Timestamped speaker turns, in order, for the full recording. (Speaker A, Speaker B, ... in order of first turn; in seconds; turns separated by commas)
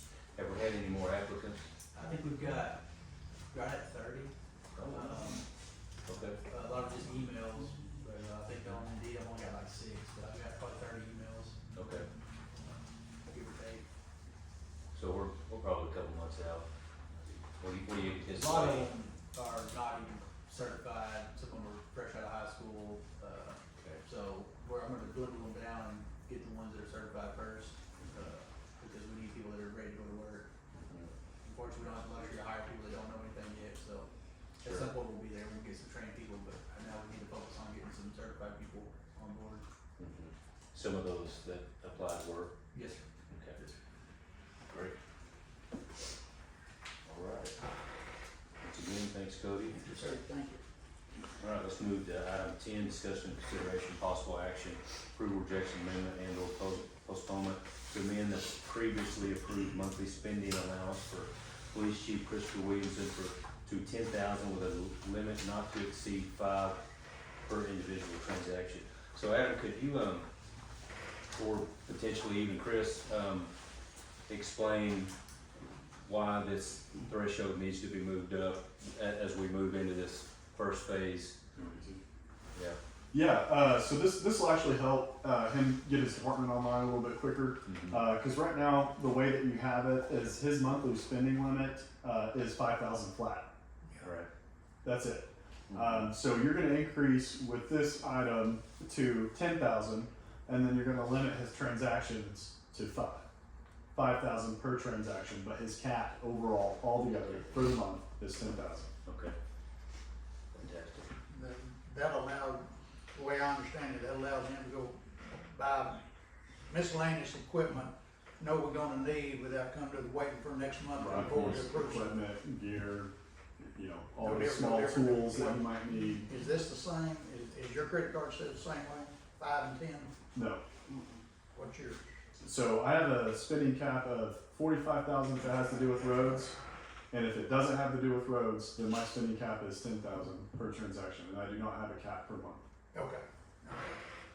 Speaker A: 0.3-1.7, Speaker B: 1.9-2.8, Speaker B: 3.5-5.5, Speaker A: 4.8-5.1, Speaker A: 6.0-6.4, Speaker B: 6.5-11.6, Speaker A: 11.7-12.1, Speaker B: 13.3-13.8, Speaker A: 14.9-18.9, Speaker B: 18.3-30.5, Speaker A: 23.8-24.0, Speaker A: 30.8-31.1, Speaker B: 31.4-34.1, Speaker B: 34.6-39.6, Speaker A: 40.0-42.5, Speaker B: 42.7-43.0, Speaker A: 43.3-43.6, Speaker A: 44.7-45.0, Speaker A: 47.0-47.6, Speaker A: 48.6-49.8, Speaker C: 49.7-50.6, Speaker A: 51.4-66.8, Speaker A: 67.5-70.3, Speaker A: 71.3-73.5, Speaker A: 74.3-75.1, Speaker A: 76.0-81.3, Speaker D: 81.5-82.0, Speaker D: 83.1-93.5, Speaker A: 87.6-88.1, Speaker A: 94.0-94.3, Speaker D: 94.8-103.2, Speaker A: 95.7-96.1, Speaker D: 104.0-108.9, Speaker A: 107.2-107.5, Speaker A: 109.0-109.4, Speaker A: 110.5-111.1, Speaker C: 111.3-116.1, Speaker C: 116.7-122.1, Speaker D: 121.0-126.3, Speaker C: 124.2-130.1, Speaker D: 130.3-130.6, Speaker C: 131.5-132.1, Speaker D: 132.4-136.6, Speaker D: 137.1-142.6, Speaker C: 142.9-144.0